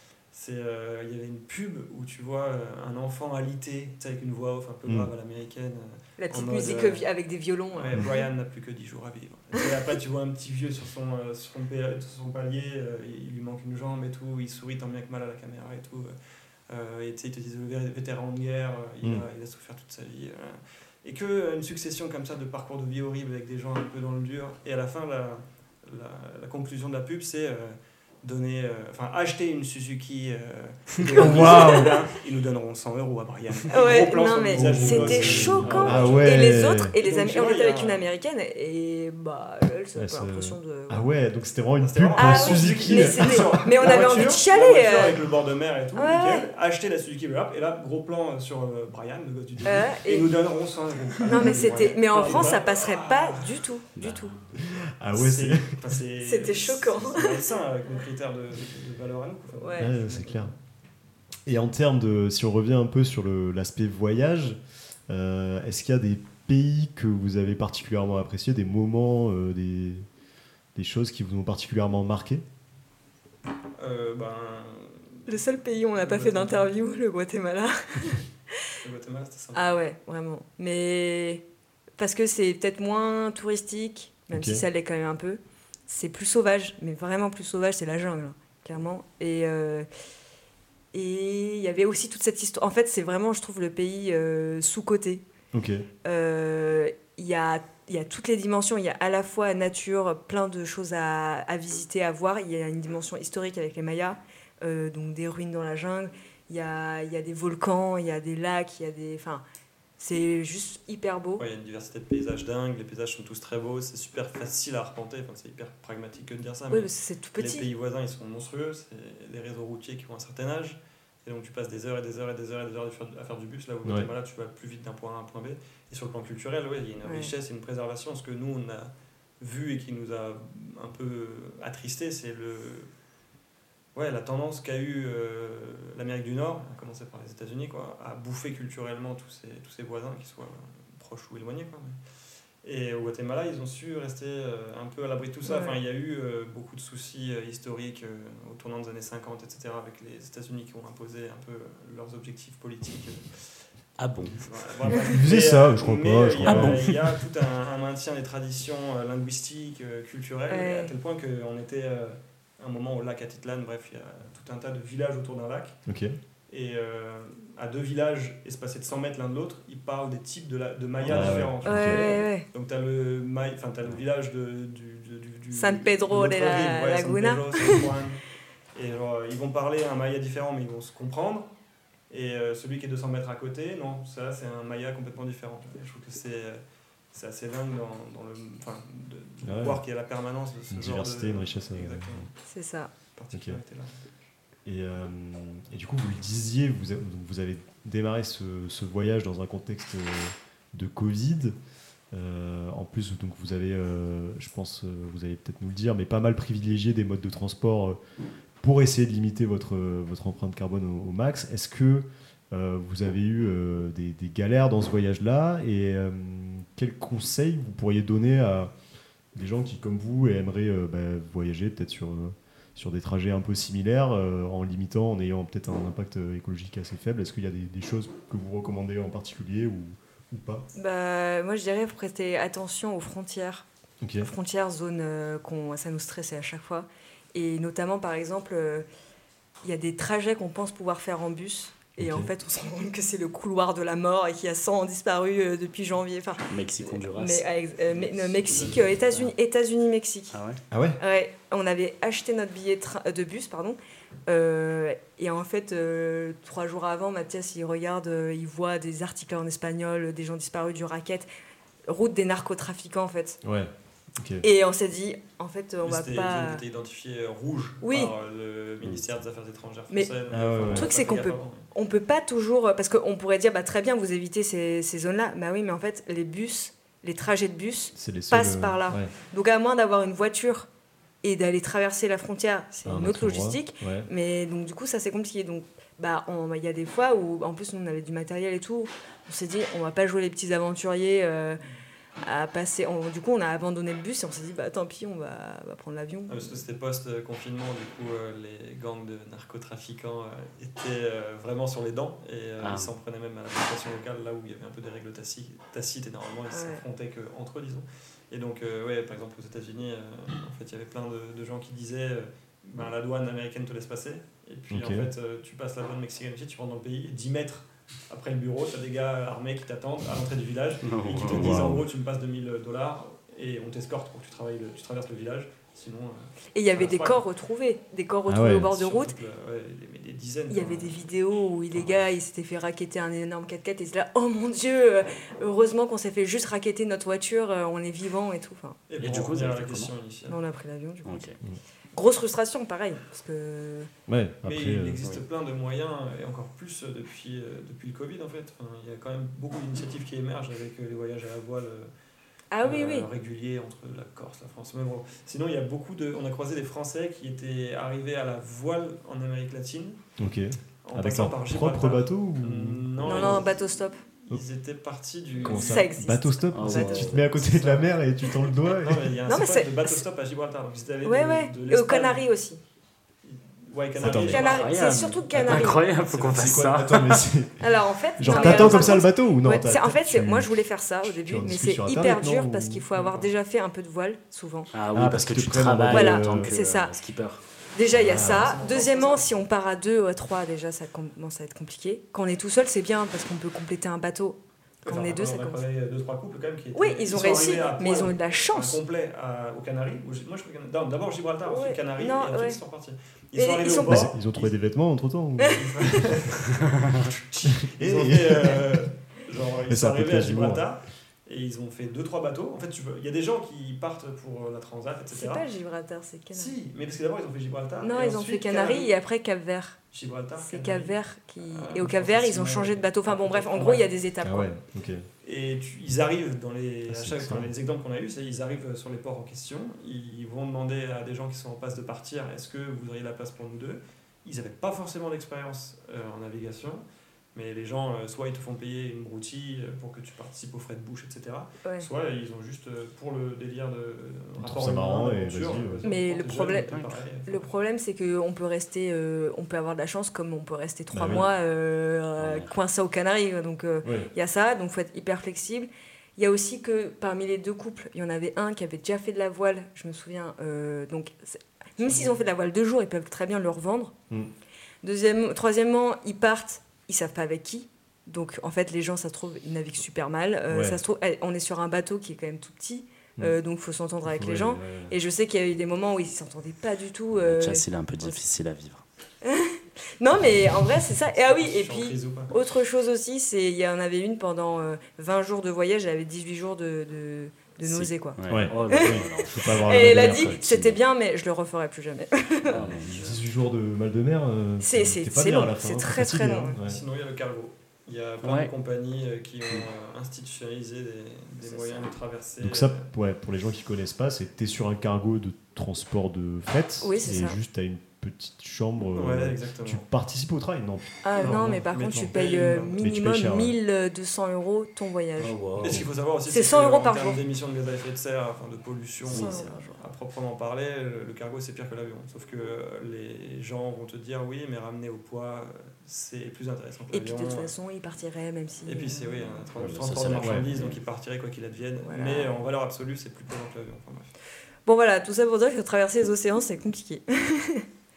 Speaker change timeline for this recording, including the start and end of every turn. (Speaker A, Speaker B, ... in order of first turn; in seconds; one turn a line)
Speaker A: 0.3-7.0
Speaker B: 4.9-5.1
Speaker C: 6.2-8.3
Speaker A: 7.7-16.1
Speaker A: 16.7-38.0
Speaker C: 31.1-32.0
Speaker B: 31.1-32.0
Speaker C: 33.7-41.0
Speaker B: 34.5-36.9
Speaker D: 35.7-36.0
Speaker B: 40.0-43.9
Speaker A: 41.8-53.6
Speaker C: 42.1-45.2
Speaker C: 46.0-46.5
Speaker C: 49.6-50.4
Speaker C: 51.3-54.4
Speaker D: 54.0-54.4
Speaker B: 54.6-55.8
Speaker A: 55.1-60.6
Speaker C: 56.2-57.5
Speaker C: 59.6-59.9
Speaker B: 59.8-60.5
Speaker B: 61.5-70.0
Speaker B: 70.8-72.4
Speaker A: 73.8-76.7
Speaker C: 75.3-78.7
Speaker A: 78.8-79.8
Speaker C: 79.5-81.4
Speaker C: 82.0-89.9
Speaker B: 84.3-84.6
Speaker C: 90.9-95.2
Speaker B: 95.5-95.9
Speaker C: 96.0-109.4
Speaker C: 110.0-111.4
Speaker A: 111.4-132.9
Speaker C: 116.7-117.7
Speaker B: 123.8-124.1
Speaker C: 127.0-127.3
Speaker A: 133.9-142.0
Speaker A: 142.6-153.5
Speaker C: 145.4-145.8
Speaker D: 154.0-154.4
Speaker A: 154.2-165.8
Speaker B: 154.9-156.9
Speaker D: 156.4-157.0
Speaker C: 160.5-160.9
Speaker B: 165.9-166.1
Speaker A: 166.5-178.2
Speaker B: 171.0-172.2
Speaker C: 171.6-172.5
Speaker C: 175.5-177.9
Speaker A: 178.8-181.5
Speaker A: 182.1-186.6
Speaker A: 187.1-192.3
Speaker B: 189.4-189.8
Speaker B: 190.7-192.3
Speaker C: 192.5-192.9
Speaker A: 193.1-193.9
Speaker B: 193.3-193.6
Speaker B: 194.7-201.6
Speaker B: 202.1-208.0
Speaker B: 208.6-218.7
Speaker B: 219.3-230.7
Speaker C: 230.7-233.7
Speaker B: 234.0-234.3
Speaker C: 234.2-238.9
Speaker C: 239.6-250.4
Speaker B: 242.0-242.3
Speaker D: 246.5-247.5
Speaker A: 247.9-249.2
Speaker D: 248.5-249.1
Speaker D: 250.3-250.6
Speaker B: 250.7-251.0
Speaker C: 251.0-261.3
Speaker C: 261.9-263.4
Speaker B: 263.4-264.4
Speaker C: 264.4-266.6
Speaker A: 265.8-271.7
Speaker C: 267.8-268.1
Speaker B: 270.3-270.9
Speaker C: 270.7-280.7
Speaker B: 277.9-279.1
Speaker C: 281.2-291.6
Speaker B: 282.9-284.1
Speaker C: 292.2-296.6
Speaker A: 296.3-327.2
Speaker D: 302.6-302.9
Speaker C: 306.5-306.8
Speaker B: 314.7-315.1
Speaker D: 320.9-321.8
Speaker B: 321.2-321.9
Speaker C: 326.5-329.1
Speaker B: 328.3-328.7
Speaker A: 328.7-331.1
Speaker C: 330.5-338.8
Speaker A: 331.7-332.0
Speaker A: 338.9-340.4
Speaker D: 339.0-339.9
Speaker C: 340.3-341.3
Speaker D: 341.1-341.4
Speaker C: 341.9-343.9
Speaker B: 344.1-345.0
Speaker A: 344.4-351.9
Speaker C: 352.5-353.1
Speaker A: 352.6-360.0
Speaker B: 360.2-363.5
Speaker A: 360.9-363.6
Speaker C: 363.1-364.0
Speaker A: 364.2-365.9
Speaker B: 365.4-369.1
Speaker C: 365.4-367.1
Speaker D: 366.5-367.4
Speaker A: 367.1-368.0
Speaker A: 368.7-372.2
Speaker C: 369.3-370.0
Speaker C: 371.0-372.6
Speaker A: 373.2-374.7
Speaker B: 374.0-374.4
Speaker C: 374.1-375.9
Speaker D: 374.4-377.3
Speaker B: 375.3-375.7
Speaker A: 376.0-376.6
Speaker B: 376.3-377.6
Speaker C: 377.6-384.7
Speaker B: 378.2-380.5
Speaker A: 378.3-378.9
Speaker B: 381.2-382.9
Speaker A: 382.9-383.3
Speaker D: 384.7-387.4
Speaker B: 384.9-386.5
Speaker C: 385.9-386.9
Speaker C: 387.7-395.6
Speaker B: 387.9-388.6
Speaker A: 388.1-389.3
Speaker A: 394.9-404.5
Speaker C: 396.8-398.8
Speaker C: 401.4-402.6
Speaker C: 403.3-404.1
Speaker B: 403.9-406.1
Speaker C: 405.4-406.1
Speaker A: 405.5-415.5
Speaker B: 407.5-408.8
Speaker B: 409.7-410.7
Speaker C: 415.1-416.5
Speaker A: 416.3-418.9
Speaker C: 417.8-419.8
Speaker A: 419.9-423.9
Speaker C: 420.4-424.5
Speaker B: 424.2-425.1
Speaker A: 425.2-447.5
Speaker B: 426.9-427.5
Speaker B: 444.4-445.9
Speaker C: 445.8-463.9
Speaker D: 446.7-447.0
Speaker B: 450.9-451.3
Speaker D: 452.2-452.5
Speaker B: 453.8-454.1
Speaker C: 464.8-478.2
Speaker B: 470.5-470.8
Speaker B: 474.1-474.9
Speaker D: 477.1-478.8
Speaker C: 479.2-492.6
Speaker A: 481.1-482.4
Speaker D: 487.6-490.8
Speaker B: 488.3-490.4
Speaker D: 492.5-493.2
Speaker B: 492.6-496.8
Speaker C: 494.6-496.6
Speaker A: 496.6-502.8
Speaker D: 498.2-498.5
Speaker C: 501.4-501.9
Speaker B: 502.4-512.1
Speaker C: 506.8-507.4
Speaker A: 509.0-509.9
Speaker C: 511.0-515.4
Speaker A: 511.2-512.8
Speaker B: 512.8-513.6
Speaker D: 515.2-515.9
Speaker A: 515.6-527.5
Speaker C: 516.3-517.2
Speaker D: 519.1-519.5
Speaker C: 519.1-519.8
Speaker C: 526.9-529.4
Speaker A: 528.7-534.1
Speaker D: 529.6-530.8
Speaker B: 530.2-530.5
Speaker C: 531.8-532.3
Speaker C: 534.7-537.7